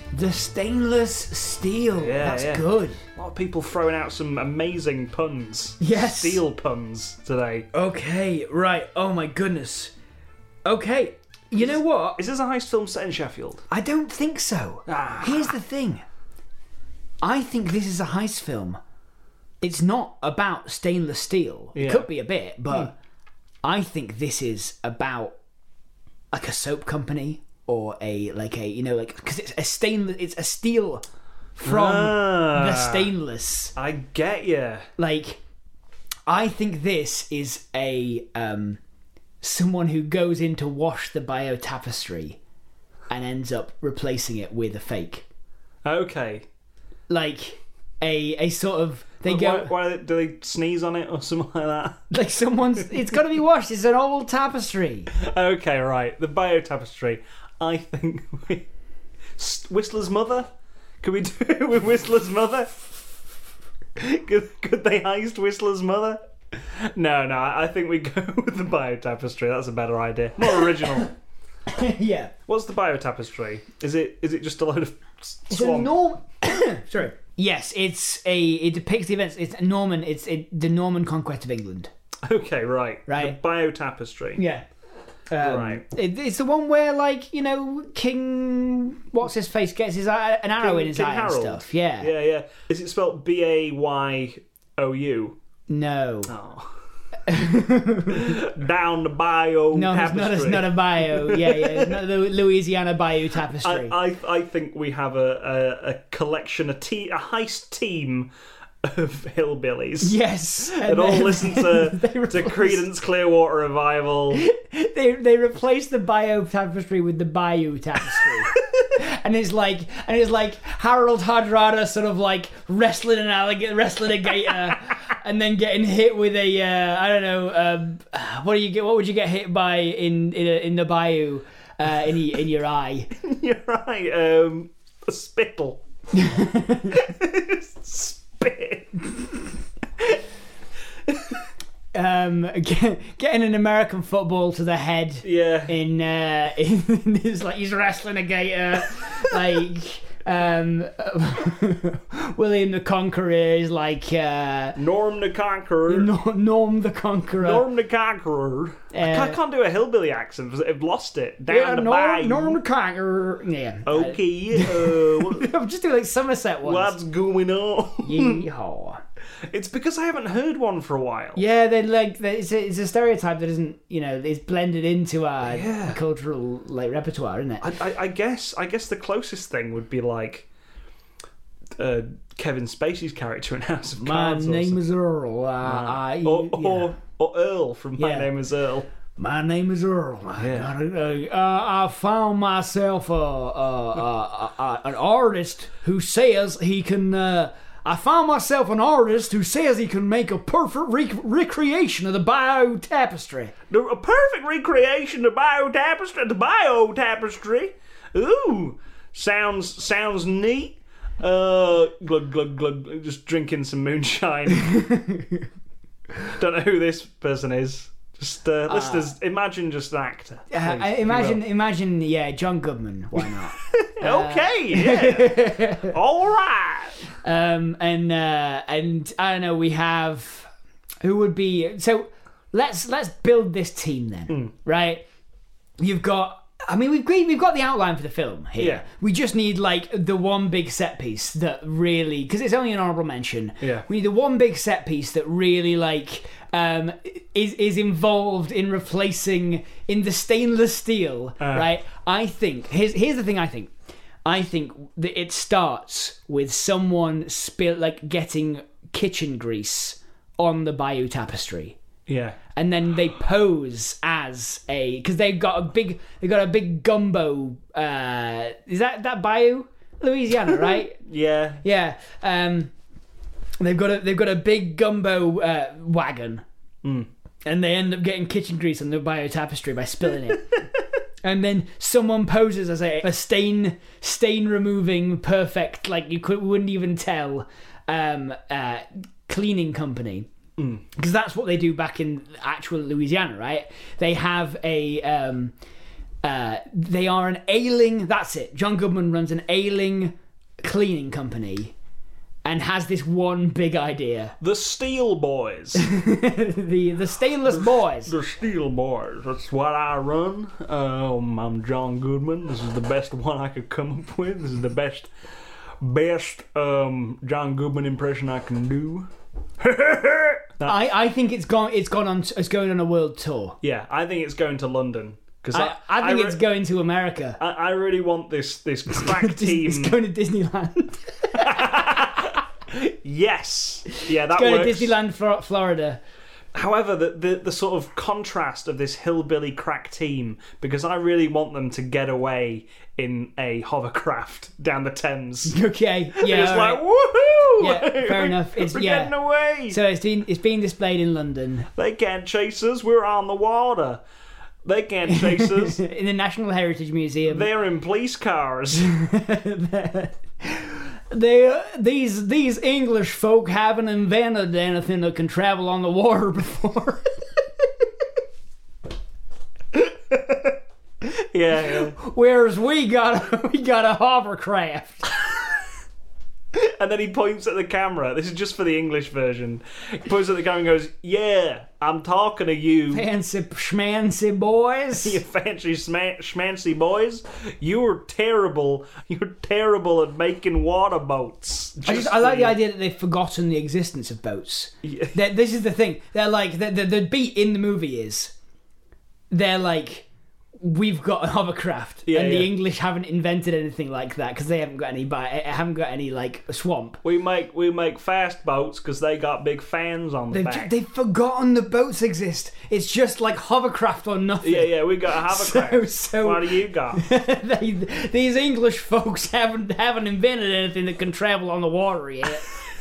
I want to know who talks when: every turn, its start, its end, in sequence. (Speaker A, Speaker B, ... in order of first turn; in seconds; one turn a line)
Speaker A: 0.1-3.0
Speaker B: 2.0-7.7
Speaker A: 5.8-6.4
Speaker A: 7.7-9.9
Speaker A: 10.7-12.2
Speaker B: 11.6-13.7
Speaker A: 13.7-16.0
Speaker B: 14.9-15.5
Speaker A: 17.2-18.8
Speaker A: 19.6-22.9
Speaker B: 21.8-22.1
Speaker A: 23.6-25.4
Speaker A: 26.3-31.1
Speaker A: 31.6-33.8
Speaker B: 31.6-33.1
Speaker B: 33.8-34.9
Speaker A: 35.0-35.4
Speaker A: 36.3-38.8
Speaker A: 39.4-42.4
Speaker A: 43.1-45.2
Speaker B: 45.9-46.5
Speaker A: 47.1-49.7
Speaker B: 49.2-52.0
Speaker A: 52.1-55.1
Speaker B: 55.1-58.7
Speaker B: 59.4-60.5
Speaker B: 61.0-62.7
Speaker B: 64.0-71.1
Speaker A: 71.7-72.3
Speaker B: 72.5-75.9
Speaker A: 75.5-81.9
Speaker B: 82.3-84.4
Speaker A: 83.1-83.4
Speaker A: 84.4-84.7
Speaker A: 85.3-92.1
Speaker B: 85.4-85.8
Speaker B: 90.6-95.4
Speaker A: 95.7-96.3
Speaker B: 96.3-96.8
Speaker A: 97.3-98.4
Speaker B: 98.1-102.0
Speaker A: 99.7-104.0
Speaker B: 103.6-108.3
Speaker B: 108.8-114.4
Speaker A: 110.0-112.8
Speaker A: 114.3-133.1
Speaker B: 118.2-118.8
Speaker B: 133.2-135.8
Speaker A: 136.1-137.0
Speaker B: 136.9-139.4
Speaker B: 141.1-141.5
Speaker A: 141.9-154.8
Speaker B: 145.2-145.8
Speaker B: 154.8-156.1
Speaker A: 155.9-157.7
Speaker B: 157.4-162.6
Speaker A: 158.9-159.4
Speaker A: 161.5-167.0
Speaker B: 163.9-165.5
Speaker B: 166.6-168.5
Speaker A: 168.0-169.0
Speaker B: 169.5-171.4
Speaker A: 171.4-177.7
Speaker B: 175.4-176.0
Speaker B: 177.6-180.5
Speaker B: 181.8-184.8
Speaker A: 184.0-186.9
Speaker B: 185.6-188.9
Speaker A: 188.0-188.3
Speaker A: 189.2-203.5
Speaker B: 190.4-190.7
Speaker B: 203.7-214.7
Speaker A: 214.6-215.5
Speaker B: 216.3-221.4
Speaker A: 218.7-219.1
Speaker A: 220.5-225.9
Speaker B: 223.7-227.1
Speaker A: 227.2-230.5
Speaker A: 231.0-235.0
Speaker A: 235.8-253.7
Speaker B: 238.6-238.8
Speaker B: 251.4-251.7
Speaker A: 254.2-261.8
Speaker B: 262.1-262.4
Speaker A: 262.6-271.0
Speaker B: 271.0-271.6
Speaker A: 271.6-272.7
Speaker A: 273.6-276.4
Speaker B: 276.8-277.1
Speaker A: 277.4-280.6
Speaker A: 281.2-290.3
Speaker B: 290.6-290.8
Speaker A: 290.9-295.5
Speaker A: 296.2-301.7
Speaker A: 302.4-304.4
Speaker B: 304.4-305.9
Speaker A: 305.8-308.1
Speaker B: 307.5-315.1
Speaker B: 315.8-320.8
Speaker A: 320.6-323.6
Speaker B: 323.6-326.4
Speaker A: 325.5-327.4
Speaker B: 327.4-330.0
Speaker A: 328.9-332.1
Speaker B: 331.4-335.0
Speaker A: 333.9-336.0
Speaker B: 336.5-345.6
Speaker A: 345.5-346.8
Speaker B: 346.1-349.8
Speaker A: 347.6-349.1
Speaker A: 349.7-351.7
Speaker B: 351.8-354.0
Speaker B: 354.6-355.8
Speaker A: 355.1-357.5
Speaker B: 357.3-358.9
Speaker A: 358.8-367.2
Speaker B: 370.1-370.5
Speaker B: 371.3-372.0
Speaker A: 371.6-375.1
Speaker B: 376.5-383.1
Speaker A: 382.9-385.2
Speaker B: 385.0-392.6
Speaker A: 391.8-398.3
Speaker B: 394.8-395.2
Speaker A: 399.3-400.1
Speaker A: 400.6-407.0
Speaker B: 402.1-402.5
Speaker B: 407.0-410.7
Speaker A: 410.3-422.5
Speaker B: 414.4-417.0